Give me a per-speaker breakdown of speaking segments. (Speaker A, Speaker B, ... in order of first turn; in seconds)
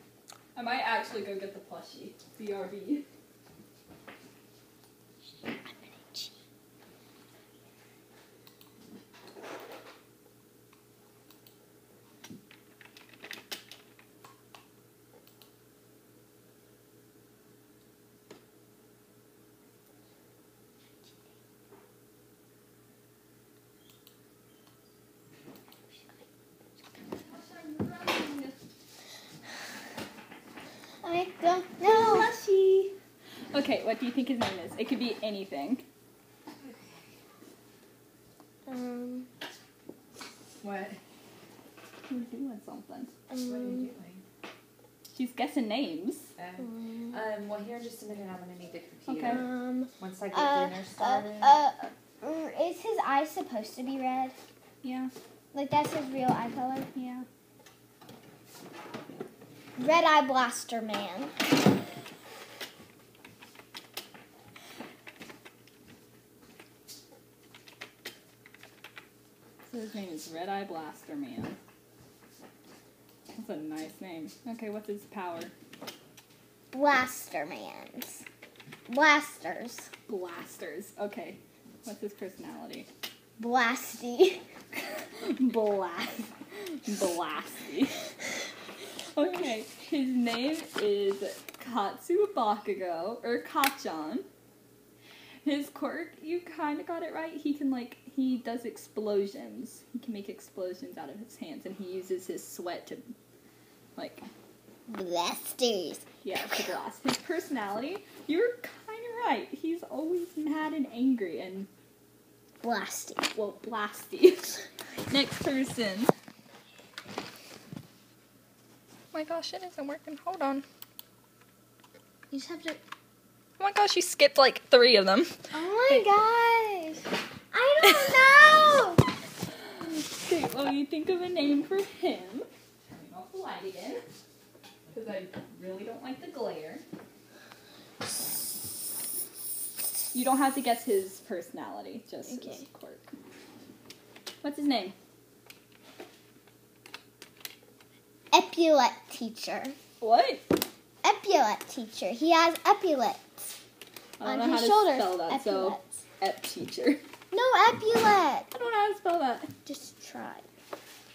Speaker A: 0.5-3.0, 27.1-28.6, 31.8-33.0, 33.5-35.8, 42.1-43.1, 45.1-46.3, 49.1-49.4, 54.8-55.1, 56.9-57.2, 69.7-71.6, 73.3-75.5, 80.1-82.9, 84.9-88.0, 89.0-94.2, 95.4-103.1, 104.0-104.3, 106.2-111.7, 113.3-116.1, 119.1-120.6, 123.6-126.0, 129.6-134.0, 134.9-136.8, 140.1-143.0, 144.4-144.9, 150.0-150.4, 154.2-157.0, 158.5-159.5
Speaker B: 5.5-6.3, 31.0-32.3, 38.6-39.3, 43.3-43.9, 46.6-47.2, 49.2-54.3, 55.5-56.9, 59.8-61.3, 76.7-78.2, 78.9-79.9, 83.4-84.4, 104.9-106.1, 112.6-113.3, 122.3-122.8, 125.5-129.0, 142.3-142.6, 148.3-149.8, 151.0-153.5, 154.2-155.8, 157.3-158.5, 159.7-160.4
Speaker C: 40.6-41.0, 43.4-44.2, 46.4-51.6